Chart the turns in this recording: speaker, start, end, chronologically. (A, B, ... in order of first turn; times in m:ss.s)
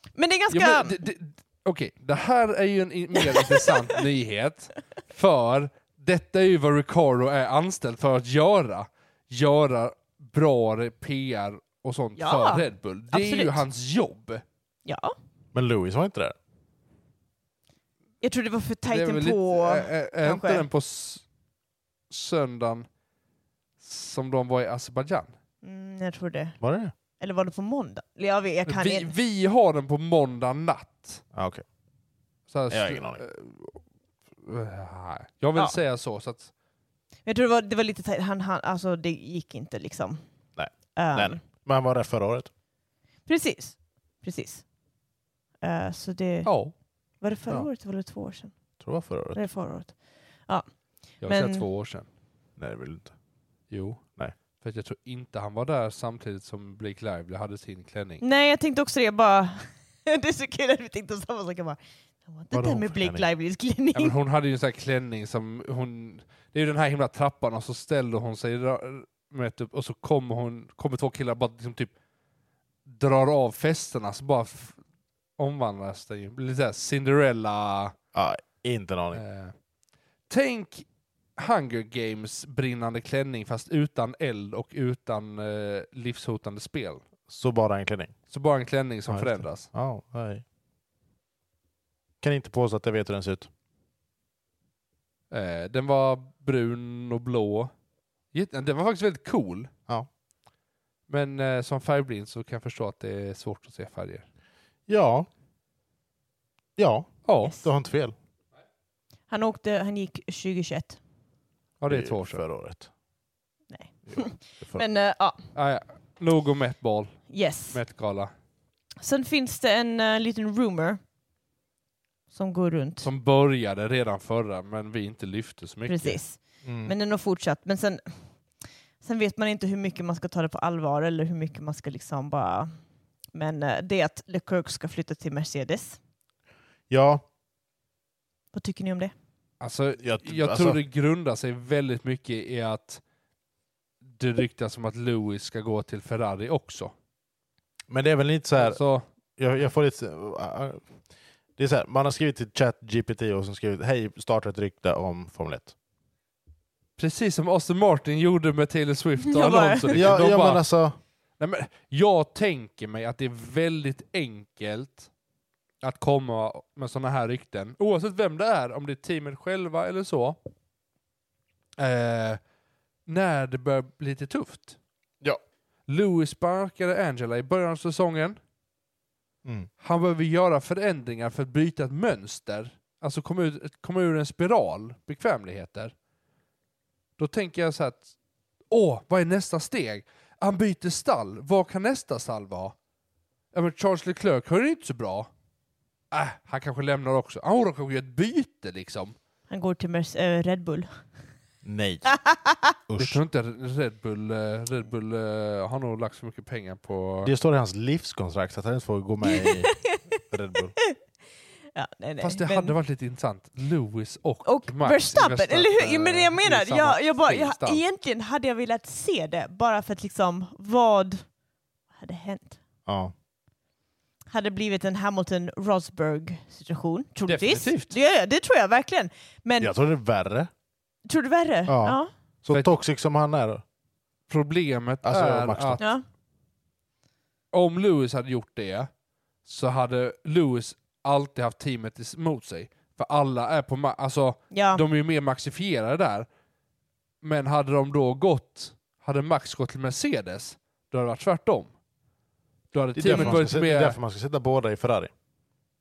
0:00.2-0:01.0 A
0:00.5-0:14.4 B
0:03.2-0:03.7 A
0:12.2-0:13.6 A
0:14.8-0:15.2 A
0:15.5-0:16.4 C
0:18.2-0:20.6 A
0:18.9-0:21.2 B
0:22.1-0:22.9 B
0:23.8-0:25.3 B
0:25.6-0:26.6 A
0:26.6-0:26.9 C
0:27.2-0:29.1 A
0:28.7-0:31.2 B
0:31.3-0:31.6 C
0:32.5-0:33.8 B
0:32.7-0:33.2 C
0:34.4-0:36.5 B
0:37.2-0:40.2 A
0:40.6-0:42.5 C
0:41.0-0:41.4 A
0:43.3-0:44.6 A
0:45.6-0:46.5 A
0:46.4-0:46.7 B
0:47.2-0:48.6 A
0:48.8-0:49.4 C
0:49.3-0:50.0 A
0:51.2-0:52.1 B
0:51.2-0:51.7 A
0:52.6-0:53.1 C
0:53.7-0:54.0 B
0:54.6-0:58.2 B
0:58.2-1:04.2 A
1:02.5-1:03.3 C
1:03.9-1:11.9 B
1:12.9-1:14.8 B
1:15.4-1:18.0 B
1:18.1-1:19.2 C
1:19.1-1:19.5 B
1:20.3-1:20.8 B
1:21.4-1:27.0 B
1:27.3-1:28.1 C
1:28.3-1:29.7 B
1:29.1-1:30.4 C
1:32.2-1:33.5 C
1:35.3-1:37.7 B
1:38.3-1:39.7 B
1:41.1-1:44.2 B
1:44.9-1:45.3 C
1:46.8-1:48.2 C
1:47.3-1:47.5 B
1:47.4-1:47.7 A
1:49.3-1:51.0 A
1:51.8-1:52.4 B
1:51.9-1:52.9 C
1:53.7-1:55.4 A
1:54.1-1:54.8 C
1:55.6-1:58.3 B
1:57.3-1:57.8 A
1:59.0-2:01.0 A
2:02.3-2:03.1 A
2:03.0-2:06.2 B
2:05.9-2:08.0 A
2:06.6-2:06.9 C
2:09.0-2:12.7 A
2:13.3-2:16.0 A
2:16.9-2:17.2 C
2:18.5-2:19.1 A
2:19.6-2:23.0 B
2:20.0-2:20.8 C
2:24.1-2:26.9 B
2:27.9-2:28.8 C
2:28.6-2:29.1 B
2:29.4-2:30.9 C
2:31.6-2:35.7 C
2:37.0-2:40.6 B
2:39.2-2:40.1 A
2:39.9-2:41.0 C
2:41.4-2:45.1 B
2:45.8-2:50.4 B
2:51.8-2:52.4 B
2:53.1-2:54.8 B
2:55.9-2:58.4 B
2:59.4-2:59.7 C
2:59.8-3:05.9 B
3:07.2-3:08.1 B
3:08.7-3:12.8 B
3:13.5-3:15.3 B
3:16.1-3:19.2 B
3:19.5-3:21.0 A
3:21.6-3:22.1 C
3:22.1-3:22.7 A
3:22.9-3:23.2 C
3:23.0-3:27.3 B
3:27.2-3:29.7 C
3:29.2-3:30.0 A
3:30.3-3:30.8 C
3:31.8-3:32.7 A
3:32.2-3:37.8 B
3:34.4-3:41.2 A
3:42.0-3:42.6 A
3:42.9-3:43.1 C
3:44.3-3:49.7 A
3:47.3-3:48.0 B
3:49.6-3:50.5 C
3:51.1-3:52.1 A
3:51.7-3:53.6 C
3:54.3-3:55.8 B
3:55.0-3:55.8 C
3:55.8-3:56.0 A
3:57.5-3:58.9 B
3:59.4-4:06.3 B
4:04.5-4:04.8 A
4:07.2-4:11.7 B
4:12.7-4:14.0 B
4:13.0-4:15.1 C
4:13.1-4:13.4 A